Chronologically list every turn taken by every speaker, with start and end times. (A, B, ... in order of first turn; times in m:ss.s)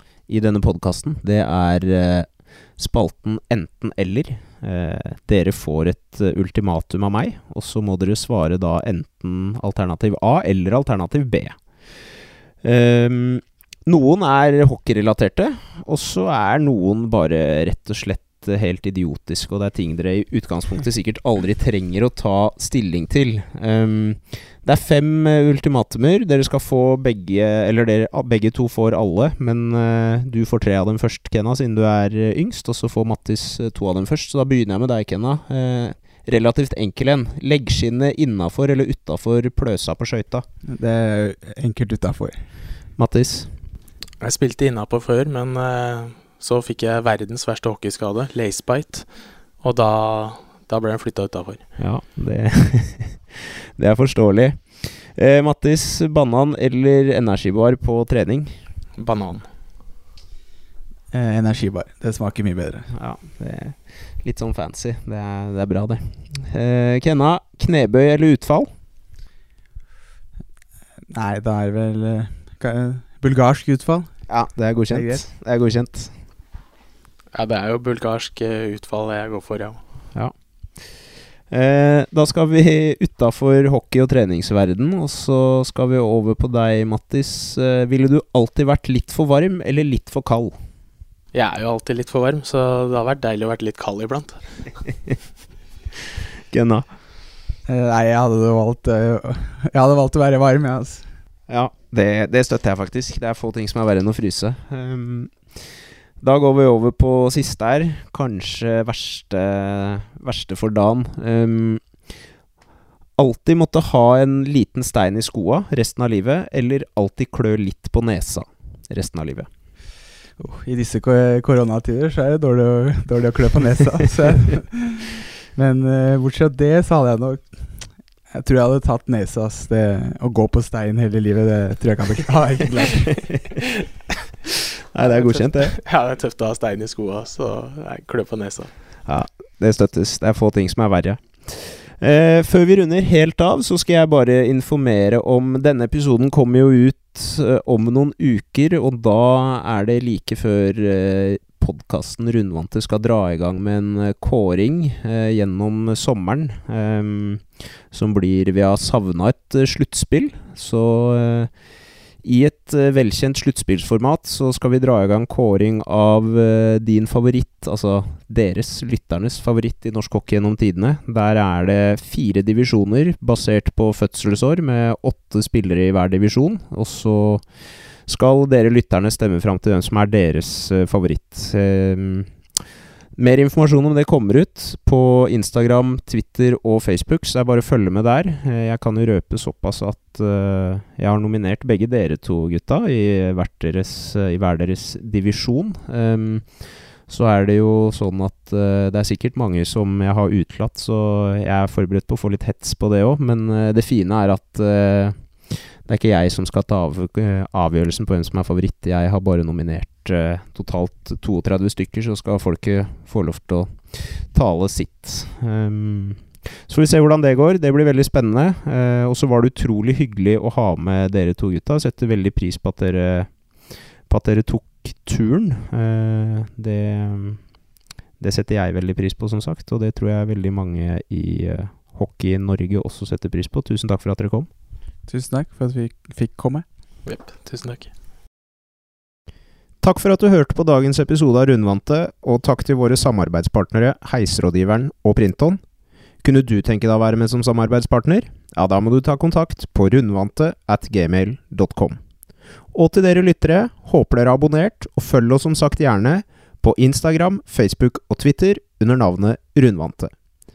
0:00.3-0:11.6 A
0:12.6-0:40.4 A
0:40.6-0:42.4 B
0:43.0-0:43.5 A
0:44.2-0:49.1 C
0:49.6-0:51.6 C
0:51.8-0:58.6 A
0:59.0-0:59.4 C
1:01.1-1:02.9 B
1:02.9-1:08.7 A
1:11.1-1:14.2 B
1:14.3-1:16.1 A
1:14.9-1:15.2 B
1:17.3-1:19.8 C
1:21.5-1:30.5 A
1:31.3-1:34.4 C
1:36.5-1:36.8 A
1:37.7-1:41.1 B
1:41.5-1:51.9 A
1:53.2-1:59.5 A
2:00.4-2:13.2 B
2:13.3-2:13.6 A
2:14.9-2:15.8 A
2:15.0-2:18.7 C
2:19.0-2:41.5 A
2:42.2-2:57.5 A
2:58.0-3:02.3 A
3:03.2-3:47.4 A
3:48.2-3:54.5 A
3:55.1-3:56.6 B
3:57.0-3:57.9 C
3:59.8-4:05.6 A
4:06.2-4:12.0 A
4:12.7-4:20.1 A